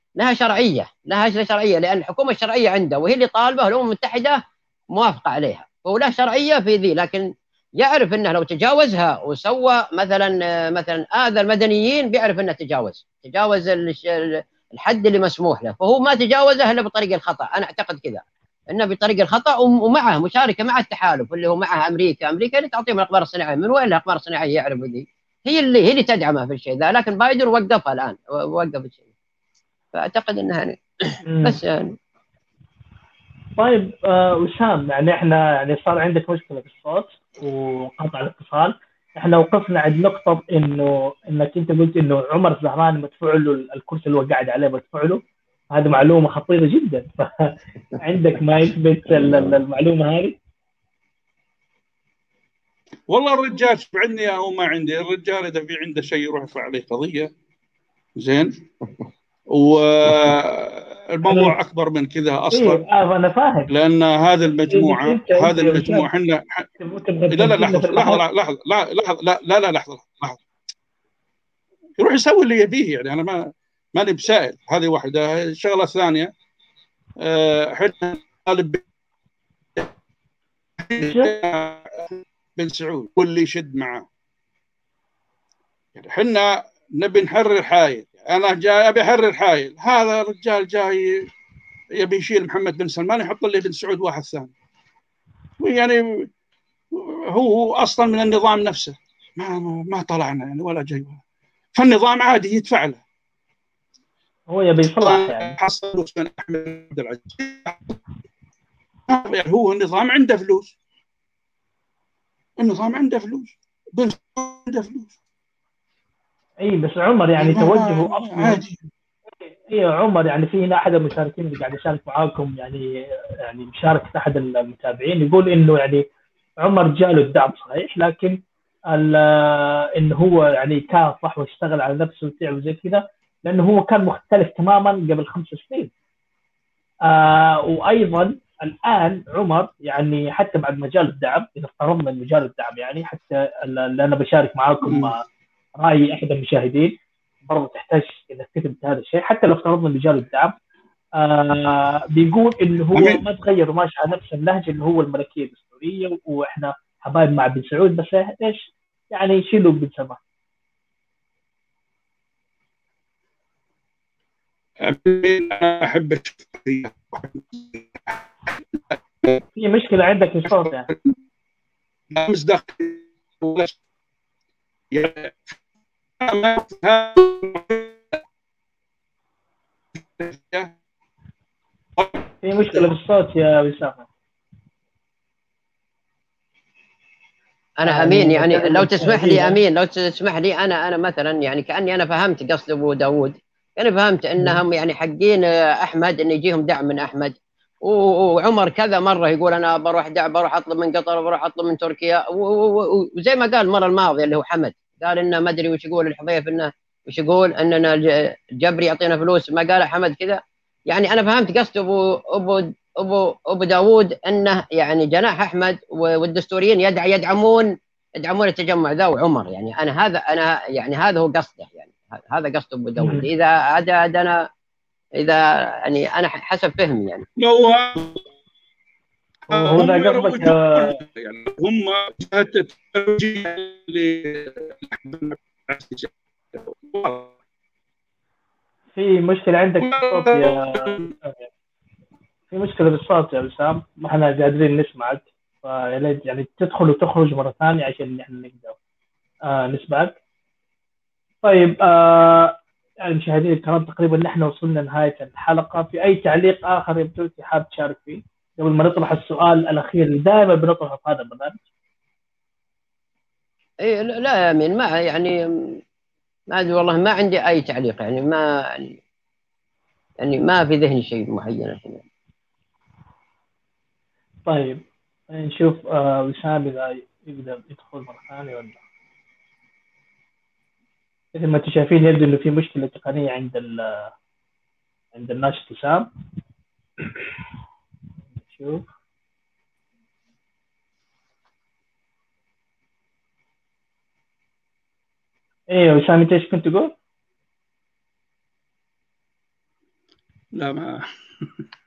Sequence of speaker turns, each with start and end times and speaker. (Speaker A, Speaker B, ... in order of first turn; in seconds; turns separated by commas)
Speaker A: 0.2-4.4, Speaker A: 4.9-29.0, Speaker A: 29.9-31.9, Speaker B: 31.3-31.6, Speaker B: 33.6-45.2, Speaker B: 45.7-50.4, Speaker C: 53.1-57.3, Speaker C: 58.2-58.6, Speaker C: 59.5-62.8, Speaker B: 61.2-61.5, Speaker B: 62.5-63.7, Speaker C: 63.7-66.7, Speaker B: 64.7-66.1, Speaker B: 66.8-68.2, Speaker C: 67.3-70.4, Speaker C: 72.0-76.3, Speaker C: 77.2-78.8, Speaker C: 80.8-84.1, Speaker B: 81.0-81.3, Speaker C: 86.0-91.3, Speaker C: 92.0-94.5, Speaker C: 95.6-96.3, Speaker C: 96.9-101.2, Speaker C: 101.8-103.0, Speaker B: 104.5-105.5, Speaker C: 105.0-108.0, Speaker C: 109.1-110.7, Speaker C: 112.6-115.2, Speaker B: 116.6-118.8, Speaker C: 117.4-118.7, Speaker B: 119.7-122.9, Speaker B: 123.4-126.0, Speaker B: 126.6-128.4, Speaker B: 128.9-135.9, Speaker B: 137.1-145.2, Speaker C: 144.8-145.1, Speaker B: 145.8-147.0, Speaker B: 147.5-150.5, Speaker B: 151.2-160.2, Speaker C: 152.9-153.2, Speaker C: 164.8-169.4, Speaker B: 169.6-170.9, Speaker C: 170.5-171.1, Speaker C: 172.1-173.8, Speaker C: 174.9-175.6, Speaker C: 176.2-178.2, Speaker C: 180.2-180.7, Speaker C: 182.0-182.9, Speaker B: 182.4-184.1, Speaker A: 187.8-224.5, Speaker B: 187.8-189.6, Speaker B: 223.0-223.3, Speaker A: 225.2-227.3, Speaker C: 227.4-228.2, Speaker B: 229.5-231.0, Speaker C: 229.5-237.3, Speaker B: 238.9-241.3, Speaker C: 239.8-241.1, Speaker B: 242.5-248.8, Speaker B: 249.5-250.2, Speaker B: 251.4-261.6, Speaker A: 263.8-265.8, Speaker A: 266.5-269.0, Speaker A: 270.2-272.0, Speaker B: 274.5-278.8, Speaker B: 281.3-284.1, Speaker B: 285.1-286.1, Speaker B: 288.4-288.8, Speaker B: 295.7-296.9, Speaker C: 300.5-301.5